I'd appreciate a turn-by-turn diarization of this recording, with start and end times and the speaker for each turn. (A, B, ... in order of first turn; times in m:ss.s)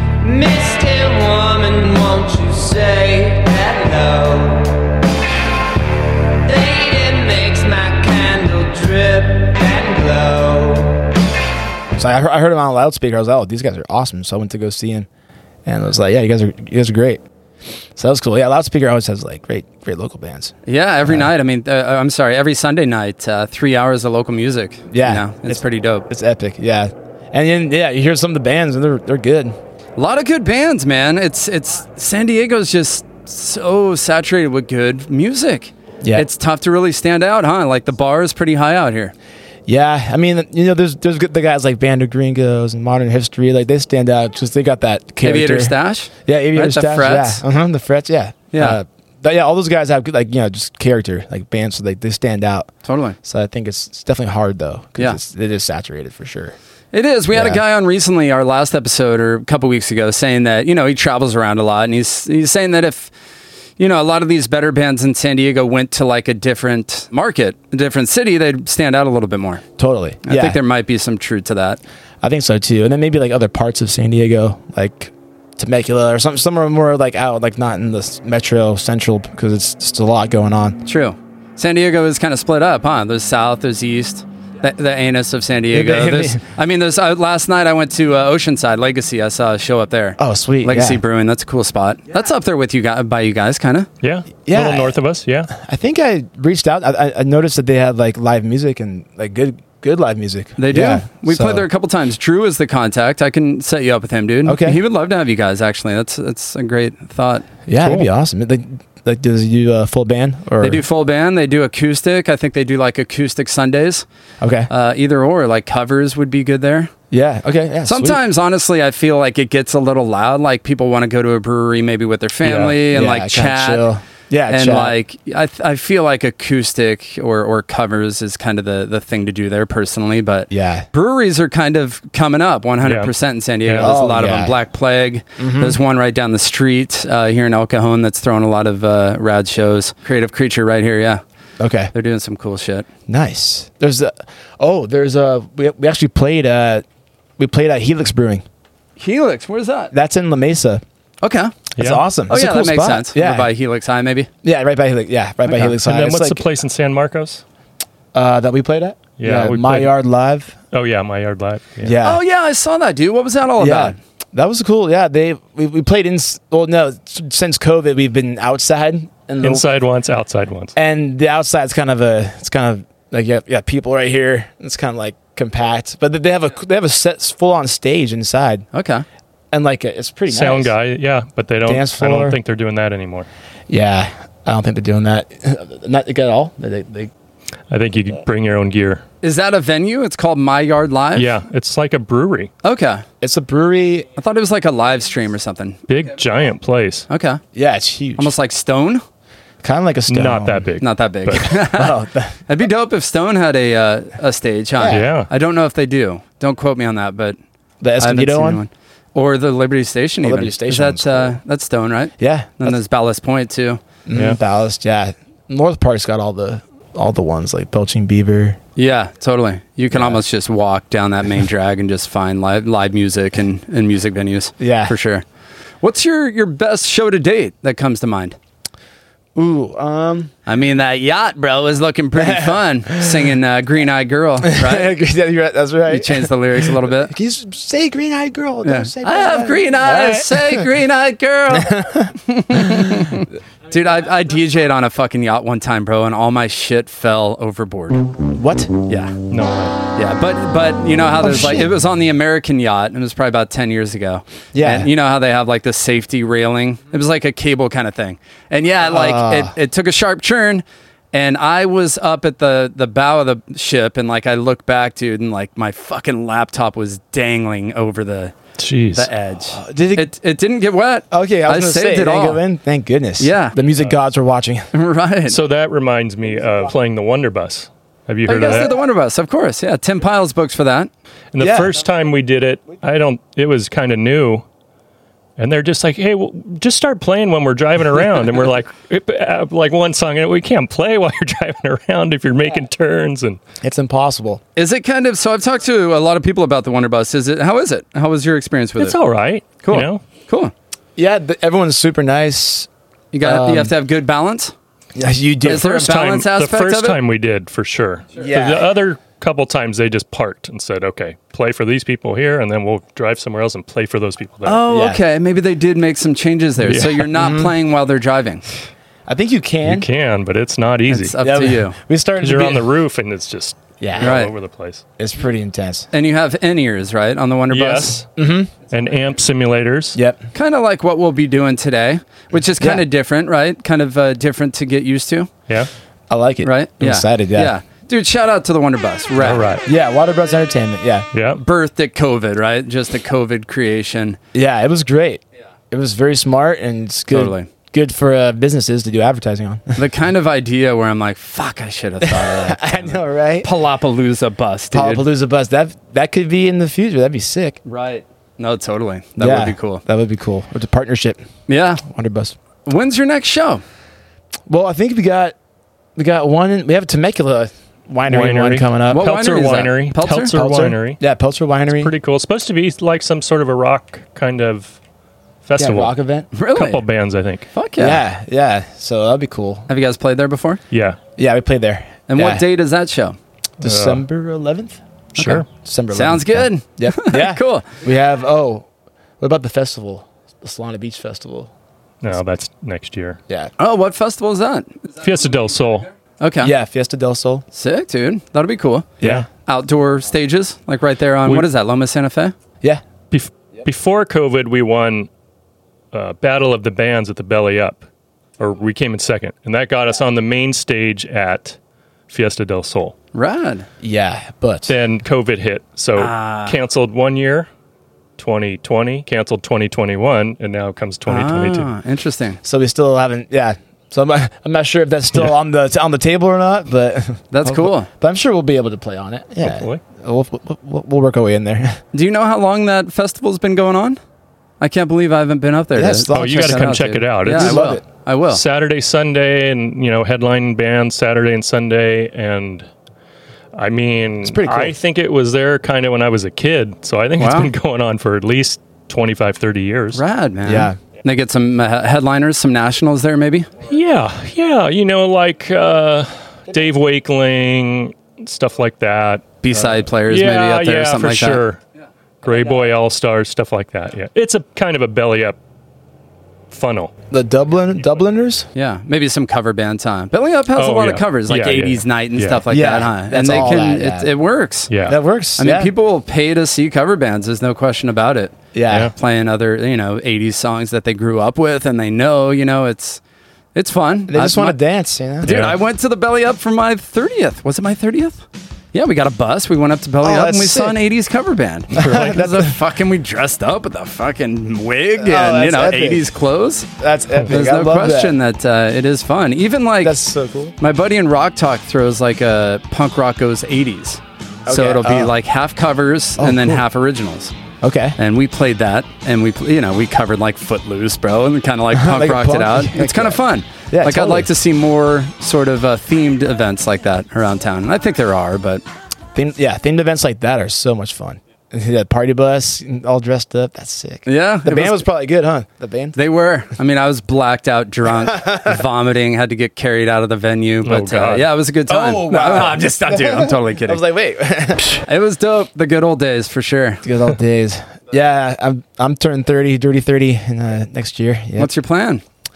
0:00.2-0:04.8 A
0:06.4-0:11.0 A
0:11.9-0:15.1 B
0:15.6-0:17.2 B
0:18.0-0:20.5 B
0:20.6-0:26.1 C
0:24.9-0:29.6 B
0:30.0-0:39.1 C
0:36.0-0:36.3 B
0:39.7-0:52.7 B
0:45.2-0:47.4 C
0:48.5-0:48.8 C
0:52.8-0:53.2 C
0:53.2-0:56.6 B
0:56.9-1:03.1 C
0:57.3-0:57.6 B
1:03.8-1:09.6 C
1:09.8-1:10.6 B
1:10.2-1:11.8 C
1:12.2-1:20.8 B
1:20.8-1:33.9 C
1:25.7-1:26.4 B
1:30.2-1:31.0 B
1:34.0-1:35.5 D
1:34.4-1:35.0 B
1:35.5-1:41.7 B
1:40.6-1:47.5 C
1:44.4-1:44.8 B
1:47.7-1:50.8 B
1:47.8-1:48.1 D
1:50.6-1:54.0 C
1:54.4-1:54.7 B
1:54.7-1:56.9 C
1:57.1-1:58.2 B
1:57.9-2:03.9 C
2:02.4-2:02.8 D
2:02.9-2:04.9 B
2:04.5-2:21.2 C
2:10.5-2:10.9 B
2:12.8-2:13.1 D
2:13.6-2:13.9 D
2:13.8-2:14.6 B
2:15.4-2:15.8 B
2:21.6-2:21.9 B
2:21.9-2:22.9 C
2:23.1-2:26.8 B
2:27.4-2:28.4 B
2:29.0-2:29.9 C
2:29.9-2:30.8 B
2:31.2-2:31.6 C
2:31.8-2:33.5 B
2:31.8-2:32.0 D
2:32.3-2:34.3 C
2:34.4-2:36.4 B
2:35.4-2:35.7 C
2:35.8-2:37.4 D
2:38.1-2:40.6 B
2:39.2-2:39.9 D
2:40.7-2:41.9 D
2:41.8-2:42.2 B
2:42.0-2:44.0 C
2:43.6-2:49.7 B
2:49.4-2:50.7 D
2:50.7-2:58.6 B
2:58.7-2:59.0 C
2:59.5-3:00.7 B
3:00.3-3:03.3 D
3:01.6-3:02.4 B
3:03.7-3:07.1 B
3:07.7-3:09.0 D
3:09.2-3:11.3 C
3:11.1-3:12.5 D
3:12.6-3:13.0 C
3:13.2-3:14.1 B
3:14.2-3:15.8 C
3:15.9-3:17.1 D
3:17.1-3:17.4 C
3:17.5-3:18.3 B
3:18.2-3:19.0 C
3:19.6-3:20.7 B
3:20.1-3:21.6 D
3:20.8-3:21.9 C
3:21.4-3:22.4 B
3:22.5-3:27.4 C
3:24.8-3:25.1 B
3:24.9-3:25.3 D
3:27.8-3:28.6 B
3:28.0-3:33.8 C
3:30.2-3:31.4 B
3:32.2-3:32.8 B
3:34.1-3:38.6 B
3:38.8-3:45.2 C
3:39.9-3:40.2 B
3:44.6-3:44.9 B
3:45.8-3:48.4 C
3:49.4-3:50.3 B
3:50.4-3:54.9 C
3:52.2-3:53.2 B
3:54.4-4:00.7 B
3:55.9-3:57.1 C
3:58.6-4:08.1 C
4:01.5-4:03.1 B
4:08.4-4:08.7 B
4:08.9-4:09.2 C
4:09.3-4:09.8 D
4:09.9-4:28.3 C
4:11.2-4:11.7 B
4:14.5-4:14.9 B
4:18.9-4:19.5 B
4:28.6-4:29.1 D
4:28.9-4:32.5 C
4:29.5-4:30.1 B
4:31.1-4:34.7 B
4:33.2-4:33.6 C
4:34.7-4:35.4 C
4:35.3-4:38.8 D
4:38.2-4:40.9 C
4:41.3-4:44.4 D
4:41.4-4:41.7 B
4:45.4-4:53.4 D
4:53.6-4:54.4 B
4:54.6-4:59.0 C
4:58.8-5:00.0 D
4:59.6-5:00.5 C
5:01.0-5:02.7 B
5:03.1-5:04.5 C
5:03.2-5:03.7 B
5:04.9-5:05.8 B
5:05.4-5:07.0 C
5:05.5-5:14.6 D
5:08.2-5:08.7 B
5:14.4-5:18.4 C
5:14.6-5:15.0 B
5:16.6-5:17.1 D
5:17.1-5:17.5 B
5:19.1-5:19.9 B
5:19.6-5:21.2 D
5:20.9-5:21.8 C
5:21.2-5:22.7 B
5:22.2-5:24.8 D
5:23.8-5:24.2 B
5:24.0-5:24.3 C
5:25.0-5:25.9 B
5:25.9-5:28.0 C
5:27.5-5:28.1 D
5:28.2-5:28.5 B
5:28.7-5:30.0 D
5:29.9-5:30.3 B
5:30.3-5:35.3 C
5:32.6-5:32.9 B
5:36.1-5:37.5 B
5:36.4-5:39.5 C
5:39.2-5:39.6 D
5:39.6-5:41.1 B
5:41.1-5:41.4 D
5:41.4-5:44.2 C
5:44.3-5:49.8 B
5:47.1-5:47.5 C
5:49.8-5:55.0 C
5:52.0-5:53.5 B
5:54.7-5:57.6 B
5:57.6-5:59.8 C
5:59.2-6:01.2 B
6:01.5-6:01.8 C
6:01.8-6:02.4 B
6:02.6-6:03.6 C
6:04.5-6:05.4 B
6:06.0-6:09.0 B
6:08.1-6:11.0 D
6:08.9-6:10.3 C
6:10.3-6:11.9 B
6:11.7-6:14.8 D
6:15.4-6:15.9 D
6:15.6-6:16.3 B
6:16.3-6:16.8 C
6:16.5-6:17.5 D
6:17.5-6:18.0 C
6:17.8-6:19.7 B
6:19.7-6:20.6 C
6:20.7-6:21.0 D
6:21.2-6:22.4 B
6:22.1-6:23.2 C
6:23.6-6:24.0 D
6:23.6-6:24.8 B
6:25.2-6:25.4 D
6:25.2-6:27.7 C
6:25.5-6:28.7 B
6:29.2-6:31.5 B
6:32.0-6:33.2 D
6:33.6-6:34.8 C
6:35.0-6:35.9 D
6:36.2-6:36.5 C
6:36.4-6:37.4 B
6:37.5-6:38.9 C
6:39.0-6:39.3 B
6:39.0-6:39.2 D
6:39.4-6:42.3 C
6:43.1-6:45.1 D
6:45.9-6:47.8 D
6:48.4-6:51.6 D
6:52.1-6:52.9 D
6:53.1-6:53.7 C
6:53.8-6:54.7 B
6:54.7-6:57.5 D
6:56.0-6:56.6 C
6:58.2-7:01.7 D
7:01.1-7:02.4 C
7:02.4-7:11.8 B
7:07.3-7:07.9 C
7:09.4-7:09.8 D
7:11.9-7:14.0 C
7:14.6-7:18.4 C
7:15.7-7:17.8 B
7:16.1-7:17.7 D
7:18.2-7:22.7 D
7:23.6-7:30.0 D
7:24.2-7:24.7 B
7:27.2-7:27.5 C
7:29.9-7:33.5 C
7:30.4-7:30.8 B
7:33.6-7:41.6 D
7:39.4-7:41.4 C
7:42.2-7:45.4 D
7:46.5-7:46.9 D
7:47.1-7:48.5 B
7:48.6-7:54.7 C
7:50.6-7:52.4 D
7:52.5-7:54.1 B
7:54.7-7:55.0 D
7:54.9-7:55.7 B
7:55.4-8:03.0 C
7:58.5-7:58.9 B
8:03.6-8:04.6 C
8:04.1-8:05.4 B
8:05.2-8:16.7 C
8:05.2-8:05.6 D
8:10.0-8:10.8 B
8:11.7-8:12.6 B
8:15.0-8:16.1 B
8:16.8-8:18.2 B
8:17.3-8:20.0 C
8:19.8-8:20.6 B
8:20.6-8:27.3 C
8:24.4-8:25.1 B
8:26.2-8:26.6 B
8:27.6-8:28.0 B
8:28.0-8:38.6 C
8:31.7-8:34.3 B
8:39.1-8:46.0 B
8:44.1-8:44.9 C
8:45.9-8:53.8 C
8:48.0-8:48.6 B
8:50.6-8:51.3 D
8:51.7-8:54.8 B
8:54.7-8:56.8 C
8:56.8-9:01.5 B
9:01.4-9:02.0 C